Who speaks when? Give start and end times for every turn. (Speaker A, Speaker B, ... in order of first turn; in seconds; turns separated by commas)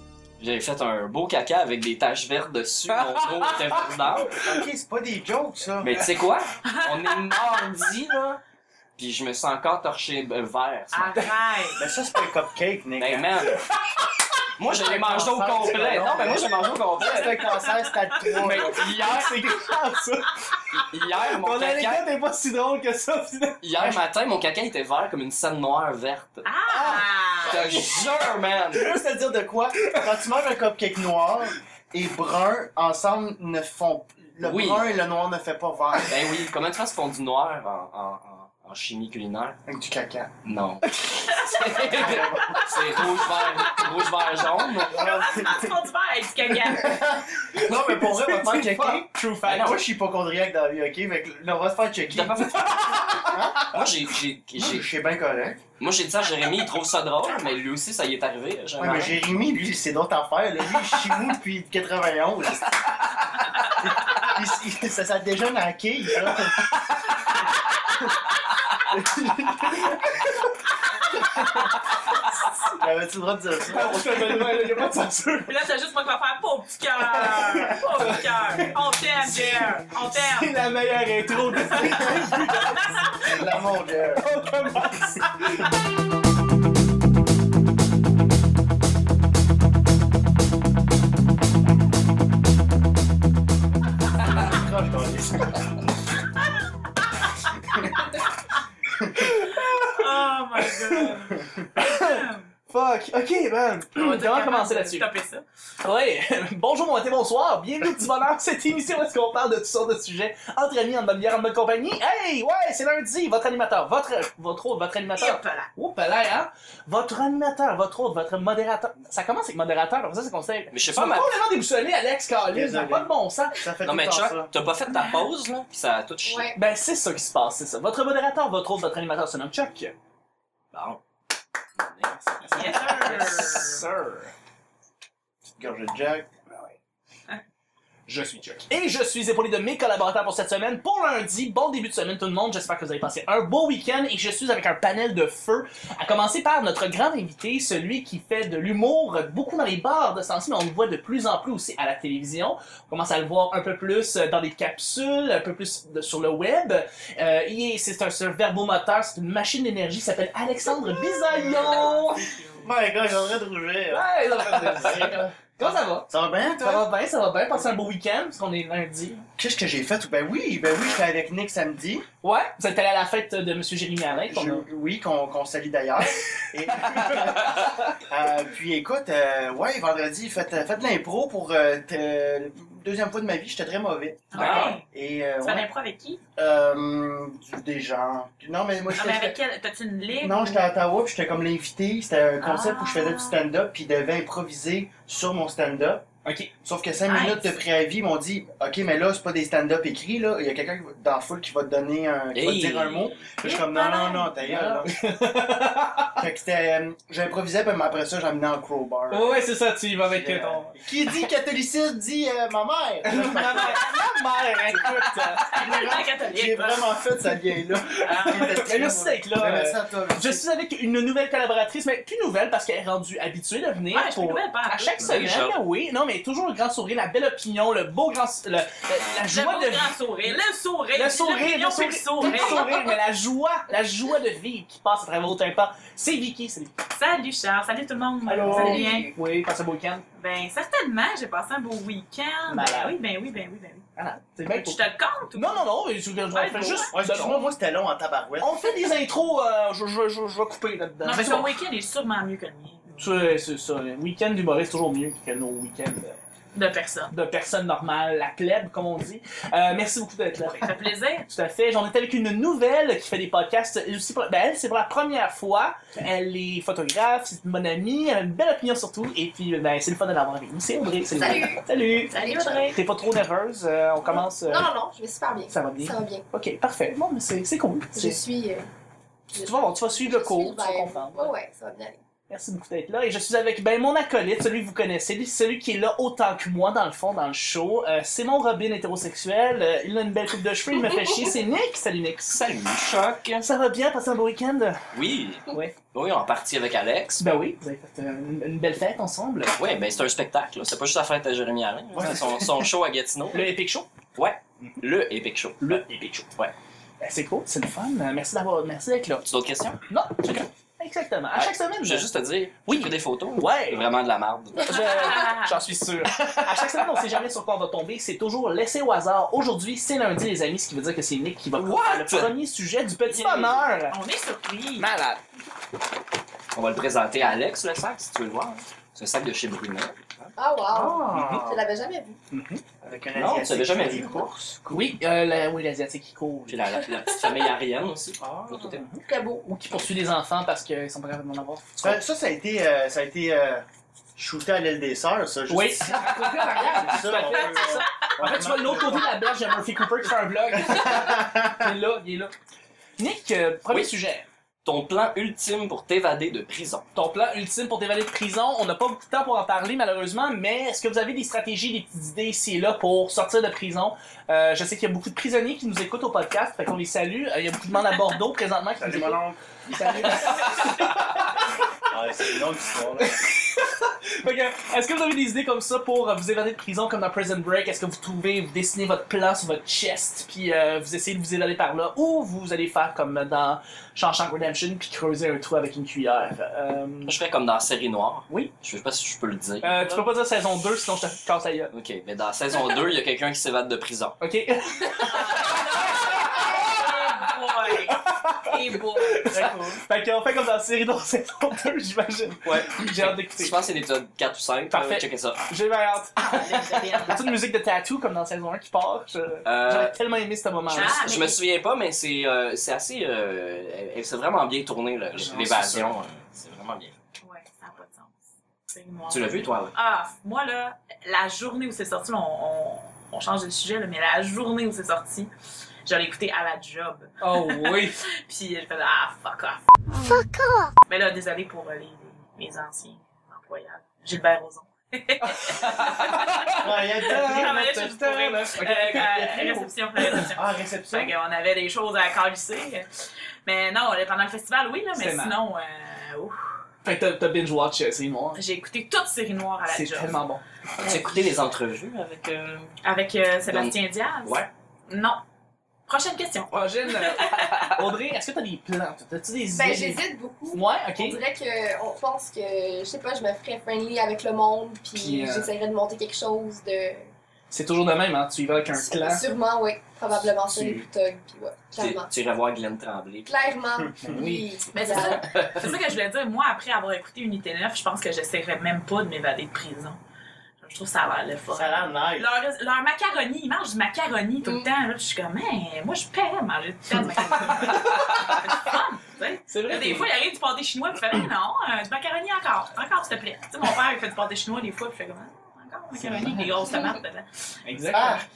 Speaker A: 0.4-4.3, Speaker B: 2.9-3.9, Speaker C: 4.2-5.9, Speaker A: 5.8-8.4, Speaker D: 6.7-7.5, Speaker A: 9.0-11.3, Speaker D: 10.9-11.9, Speaker C: 11.8-13.4, Speaker A: 13.0-13.6, Speaker B: 13.6-14.1, Speaker A: 14.6-17.4, Speaker C: 14.7-18.9, Speaker B: 15.6-16.4, Speaker D: 17.4-17.9, Speaker B: 18.2-23.6, Speaker A: 18.4-19.5, Speaker A: 20.7-22.1, Speaker A: 23.6-26.5, Speaker C: 23.7-24.0, Speaker D: 26.4-27.7, Speaker B: 26.7-27.0, Speaker A: 27.4-28.9, Speaker C: 28.7-36.4, Speaker B: 29.8-30.1, Speaker A: 34.4-35.0, Speaker A: 36.0-39.6, Speaker C: 39.7-40.3, Speaker A: 40.4-45.4, Speaker D: 41.3-42.7, Speaker C: 41.8-43.0, Speaker D: 43.6-43.9, Speaker D: 44.8-47.0, Speaker C: 44.9-45.6, Speaker C: 46.6-53.9, Speaker B: 47.5-49.7, Speaker A: 49.5-49.8, Speaker A: 52.1-54.9, Speaker B: 53.0-53.3, Speaker C: 54.6-55.6, Speaker A: 55.8-59.2, Speaker C: 58.8-62.9, Speaker C: 63.8-66.7, Speaker C: 68.9-70.0, Speaker B: 69.7-70.5, Speaker B: 71.2-71.8, Speaker C: 72.8-74.7, Speaker B: 73.7-75.5, Speaker D: 75.5-80.5, Speaker B: 77.1-83.0, Speaker D: 81.5-83.2, Speaker C: 83.2-84.2, Speaker B: 84.2-85.7, Speaker C: 94.2-95.8, Speaker D: 97.2-98.1, Speaker C: 99.0-99.3, Speaker B: 99.1-105.1, Speaker D: 99.5-102.5, Speaker D: 103.9-105.4, Speaker B: 105.8-123.6, Speaker D: 115.2-115.7, Speaker A: 120.7-121.3, Speaker C: 122.5-124.5, Speaker A: 123.8-126.5, Speaker D: 124.9-125.3, Speaker E: 126.2-126.6, Speaker B: 126.5-129.9, Speaker A: 130.7-131.0, Speaker A: 131.8-132.9, Speaker B: 132.4-134.3, Speaker D: 132.5-133.8, Speaker C: 135.4-136.3, Speaker B: 138.1-162.3, Speaker D: 161.2-162.8, Speaker C: 161.3-161.9, Speaker C: 162.6-166.9, Speaker B: 163.9-169.2, Speaker C: 169.4-172.1, Speaker B: 172.2-174.7, Speaker C: 174.2-185.7, Speaker B: 176.8-177.5, Speaker D: 184.3-184.9, Speaker A: 184.3-184.8, Speaker D: 185.4-186.2, Speaker C: 186.3-189.3, Speaker D: 188.9-190.6, Speaker C: 190.2-196.0, Speaker D: 192.4-193.4, Speaker B: 196.2-196.5, Speaker C: 196.6-205.0, Speaker D: 197.1-197.5, Speaker A: 202.3-203.2, Speaker D: 203.4-204.4, Speaker B: 204.4-206.2, Speaker C: 206.2-209.4, Speaker B: 209.1-210.8, Speaker C: 210.0-213.9, Speaker B: 213.0-215.6, Speaker C: 214.7-220.4, Speaker D: 215.4-217.0, Speaker D: 218.0-218.7, Speaker B: 218.2-229.9, Speaker D: 223.9-225.2, Speaker A: 225.0-225.6, Speaker D: 229.2-232.9, Speaker B: 230.9-236.7, Speaker D: 236.9-239.1, Speaker C: 238.2-238.9, Speaker E: 238.4-239.1, Speaker B: 239.1-240.0, Speaker D: 240.2-243.8, Speaker B: 242.5-242.9, Speaker B: 243.9-244.8, Speaker D: 244.5-245.7, Speaker B: 245.3-247.5, Speaker D: 246.3-246.9, Speaker C: 246.9-248.7, Speaker B: 248.4-251.5, Speaker D: 251.0-253.2, Speaker B: 253.0-256.2, Speaker D: 256.5-257.1, Speaker B: 257.1-272.1, Speaker D: 260.6-261.3, Speaker E: 271.1-272.7, Speaker D: 272.1-272.8, Speaker B: 272.7-274.7, Speaker E: 274.1-276.2, Speaker B: 275.5-278.2, Speaker E: 277.9-278.7, Speaker E: 279.3-282.0, Speaker B: 279.4-281.3, Speaker B: 282.3-292.4, Speaker A: 292.3-293.4, Speaker B: 293.4-294.9, Speaker A: 294.9-297.2, Speaker B: 295.5-295.7, Speaker B: 297.2-299.6, Speaker A: 299.5-303.5, Speaker C: 301.9-302.7, Speaker B: 303.3-303.9, Speaker A: 304.1-305.8, Speaker B: 305.6-306.3, Speaker B: 307.0-309.3, Speaker A: 309.2-309.8, Speaker B: 309.9-312.1, Speaker A: 311.3-314.8, Speaker B: 312.6-313.8, Speaker D: 314.6-315.7, Speaker B: 314.6-324.0, Speaker A: 316.1-316.8, Speaker A: 321.6-322.3, Speaker A: 323.1-323.6, Speaker D: 323.9-324.9, Speaker B: 324.8-325.2, Speaker A: 326.5-330.3, Speaker E: 330.4-332.2, Speaker C: 330.7-331.6, Speaker B: 332.3-332.6, Speaker C: 332.8-334.9, Speaker A: 333.1-334.3, Speaker B: 334.7-336.7, Speaker A: 336.5-338.8, Speaker C: 338.2-338.8, Speaker B: 338.7-342.0, Speaker E: 339.0-339.4, Speaker C: 341.8-343.6, Speaker C: 344.1-349.1, Speaker B: 345.5-352.3, Speaker D: 347.4-348.1, Speaker C: 350.6-351.7, Speaker B: 353.0-354.2, Speaker A: 354.6-356.9, Speaker B: 356.9-371.4, Speaker C: 368.8-370.7, Speaker C: 371.8-373.3, Speaker B: 373.0-387.1, Speaker A: 387.1-390.1, Speaker B: 389.6-391.7, Speaker A: 391.7-394.2, Speaker B: 394.2-403.6, Speaker D: 395.0-399.3, Speaker C: 399.2-399.8, Speaker A: 402.4-405.4, Speaker B: 404.7-411.1, Speaker C: 406.3-407.2, Speaker A: 409.4-410.0, Speaker A: 410.7-416.9, Speaker D: 410.7-411.4, Speaker B: 415.2-415.8, Speaker D: 417.2-425.3, Speaker A: 419.1-419.7, Speaker D: 425.9-429.6, Speaker B: 427.2-428.0, Speaker D: 430.9-442.9, Speaker B: 435.2-440.3, Speaker C: 436.6-437.7, Speaker C: 440.4-441.1, Speaker D: 443.4-446.4, Speaker B: 444.9-445.4, Speaker B: 446.8-448.4, Speaker D: 448.3-450.2, Speaker B: 449.7-450.4, Speaker A: 450.8-452.8, Speaker D: 452.8-455.2, Speaker A: 453.5-454.5, Speaker D: 455.9-457.8, Speaker B: 456.5-461.2, Speaker E: 459.5-467.1, Speaker B: 464.9-465.5, Speaker B: 467.5-469.2, Speaker E: 468.7-472.1, Speaker B: 470.5-470.8, Speaker A: 471.8-473.6, Speaker E: 473.2-475.3, Speaker B: 474.0-474.5, Speaker D: 474.7-480.0, Speaker A: 475.0-475.7, Speaker D: 480.6-497.3, Speaker C: 481.5-482.3, Speaker B: 487.4-488.7, Speaker B: 489.5-490.1, Speaker C: 496.0-496.4, Speaker B: 497.6-498.2, Speaker C: 497.9-498.2